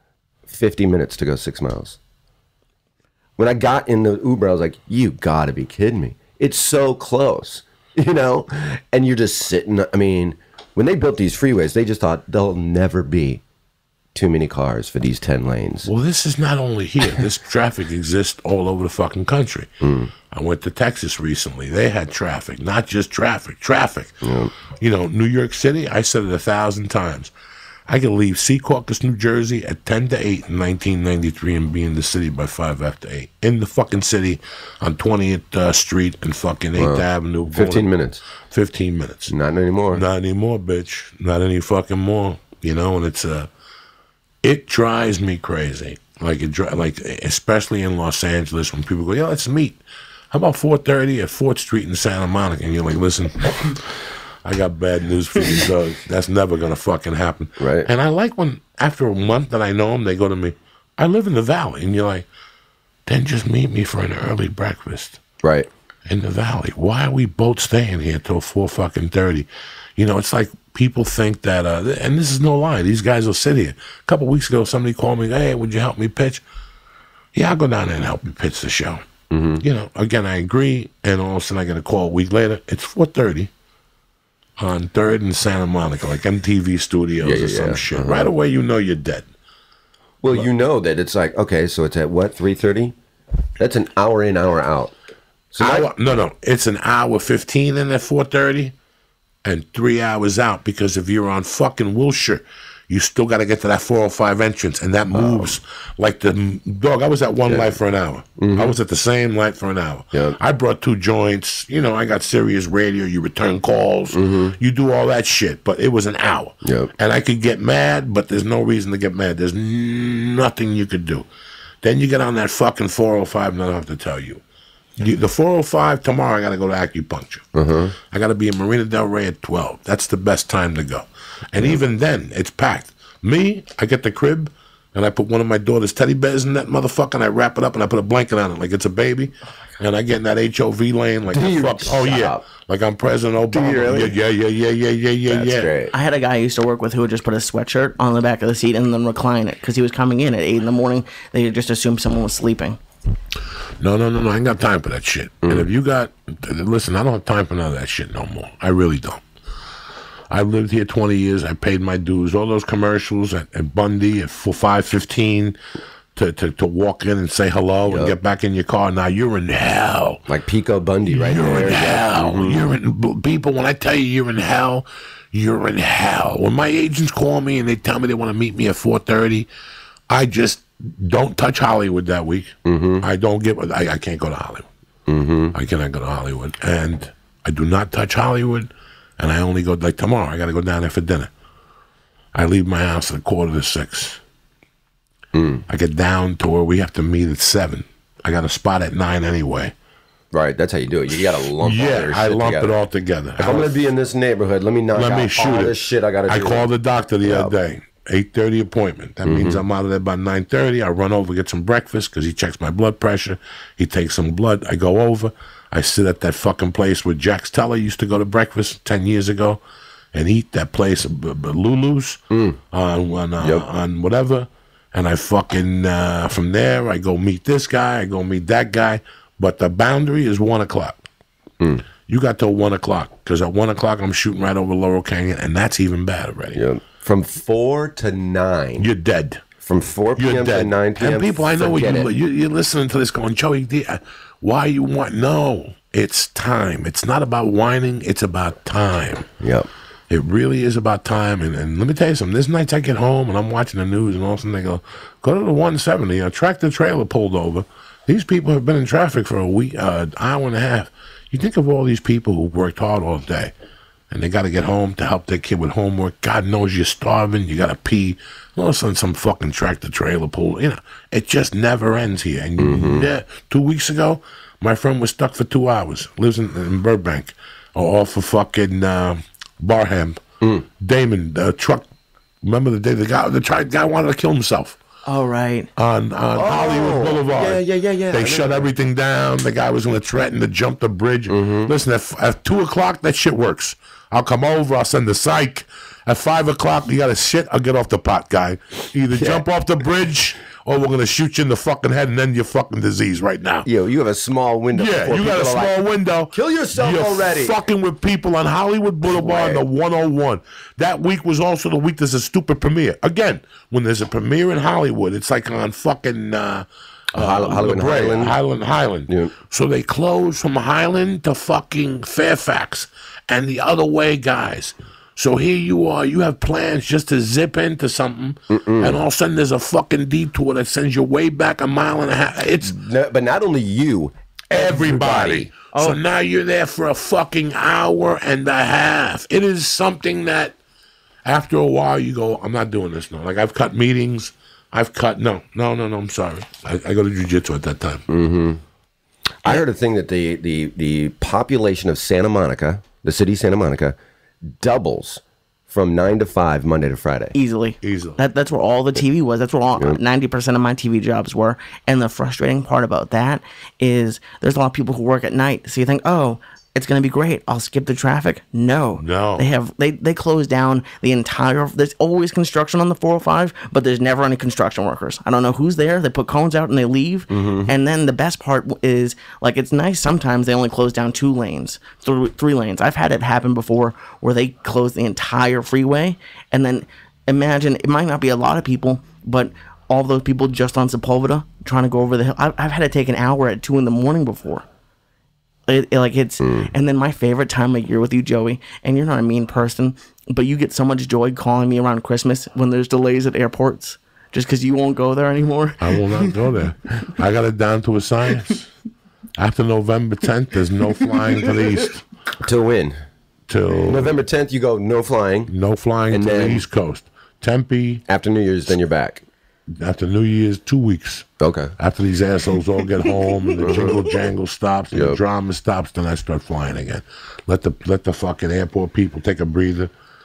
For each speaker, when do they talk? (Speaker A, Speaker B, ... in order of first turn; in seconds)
Speaker A: 0.5-2.0, 3.4-13.4, 14.1-15.9, 19.8-20.1, 24.2-24.5, 36.8-38.2, 39.3-40.0, 57.6-57.9, 65.4-65.7, 79.3-79.6, 87.2-88.3, 90.2-93.0, 93.6-95.0, 95.5-95.9, 105.1-105.5, 107.5-107.8, 108.4-108.8, 110.1-110.4, 114.1-114.5, 116.6-116.9, 127.5-127.9, 141.3-142.4, 143.5-144.2, 145.3-145.9, 155.4-155.7, 167.9-168.2, 170.3-172.6, 182.6-183.1, 185.1-185.5, 195.3-195.6, 200.3-202.7, 203.4-206.7, 207.2-207.5, 209.2-209.6, 222.3-222.6, 223.4-223.6, 236.5-238.9, 239.6-242.1, 249.4-249.7, 272.6-273.1, 286.4-288.7, 291.3-291.7, 299.1-299.4, 303.6-305.8, 306.3-307.6, 309.0-309.6, 317.1-318.4, 319.1-319.3, 328.5-329.0, 332.6-335.8, 348.1-348.6, 349.4-354.0, 354.5-357.4, 377.3-377.7, 396.4-396.7, 412.4-412.9, 413.7-415.5, 416.1-416.6, 418.1-419.2, 421.4-421.7, 423.6-424.1, 424.9-425.2
Speaker B: 15.8-19.7, 20.3-24.2, 24.8-27.3, 27.9-37.9, 38.5-39.3, 39.9-43.5, 44.4-49.8, 50.3-62.2, 63.1-65.2, 66.1-76.4, 77.3-79.0, 79.6-83.5, 84.6-89.3, 95.6-98.7, 99.5-121.3, 121.8-124.4, 125.0-127.5, 128.1-145.7, 153.8-159.2, 160.3-165.6, 166.2-170.2, 171.1-179.5, 180.1-184.7, 185.5-191.3, 192.3-194.2, 195.7-199.7, 201.6-203.8, 204.9-205.8, 206.3-219.6, 220.1-222.2, 222.7-231.0, 232.1-236.6, 238.8-239.4, 240.2-249.3, 250.1-263.5, 264.1-280.2, 280.8-281.9, 282.4-284.8, 285.8-303.7, 304.7-332.8, 334.5-340.6, 341.2-348.0, 357.8-358.2, 369.0-369.5, 405.8-408.7, 409.4-412.0, 413.5-414.2, 415.5-418.0, 419.7-421.3, 421.8-429.9
Speaker C: 145.9-152.8, 285.1-285.7, 357.4-394.6, 395.7-406.4